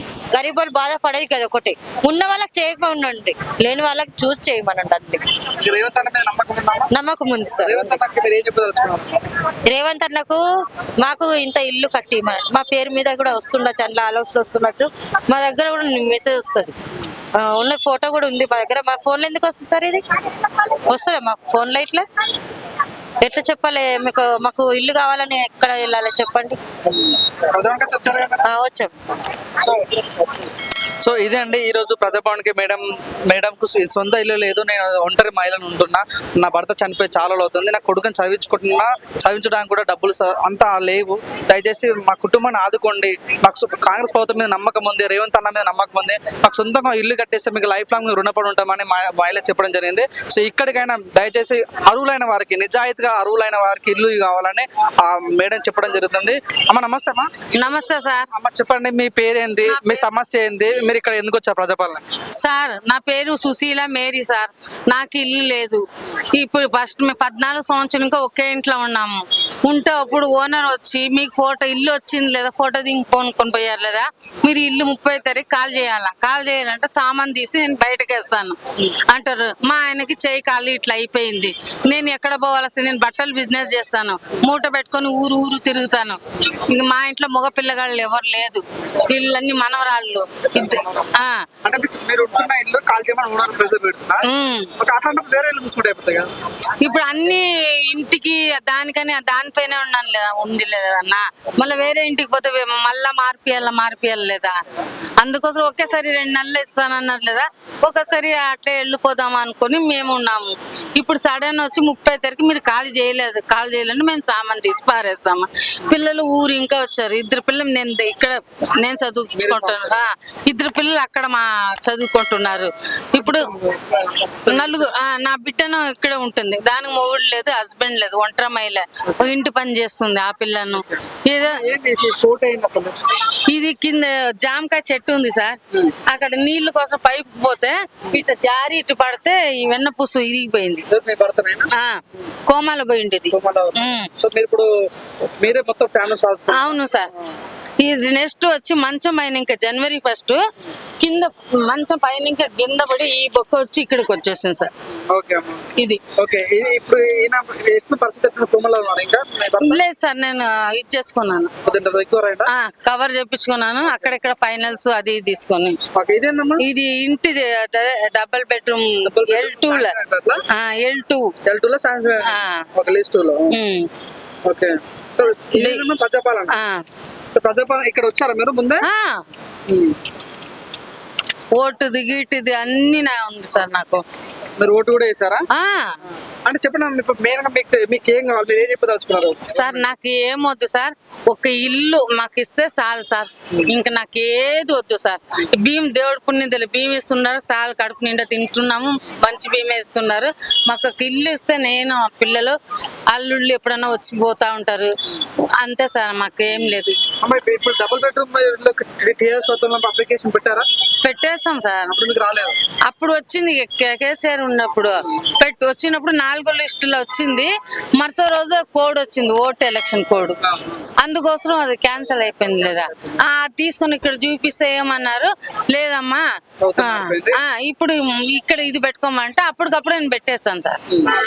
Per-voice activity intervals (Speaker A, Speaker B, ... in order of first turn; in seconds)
Speaker A: 0.3-5.3, 6.9-8.0, 9.7-10.4, 11.0-16.8, 17.3-20.0, 20.7-22.1, 23.2-26.6, 28.4-29.3
Speaker B: 5.6-6.9, 7.6-9.2, 27.1-28.4, 29.6-30.5, 31.0-57.5, 58.3-62.0, 90.6-91.1, 91.6-94.3, 94.8-96.3, 119.3-120.0, 123.2-124.9, 131.4-133.0, 140.9-141.7, 143.3-144.7, 145.4-147.2, 155.1-159.8, 161.6-162.5, 165.9-166.6, 169.1-170.4, 171.4-173.5, 174.4-176.5, 177.3-178.8, 179.7-180.0, 184.6-185.5, 186.3-189.9, 207.2-210.7, 211.9-212.6, 220.4-220.7, 226.6-227.4
Speaker C: 57.5-58.3, 59.7-60.1, 62.4-91.5, 94.2-94.7, 96.8-104.6, 105.2-123.5, 124.5-131.6, 133.5-140.9, 141.8-144.1, 146.5-147.1, 147.8-150.4, 151.0-154.7, 155.7-156.0, 159.6-161.5, 162.5-165.8, 166.6-169.9, 170.5-171.3, 172.2-172.7, 173.5-173.9, 175.6-175.9, 176.5-176.8, 178.8-179.2, 181.6-184.0, 185.5-186.0, 189.5-202.6, 203.1-204.9, 205.6-207.0, 211.0-211.9, 212.9-220.4, 221.0-226.2, 226.8-230.8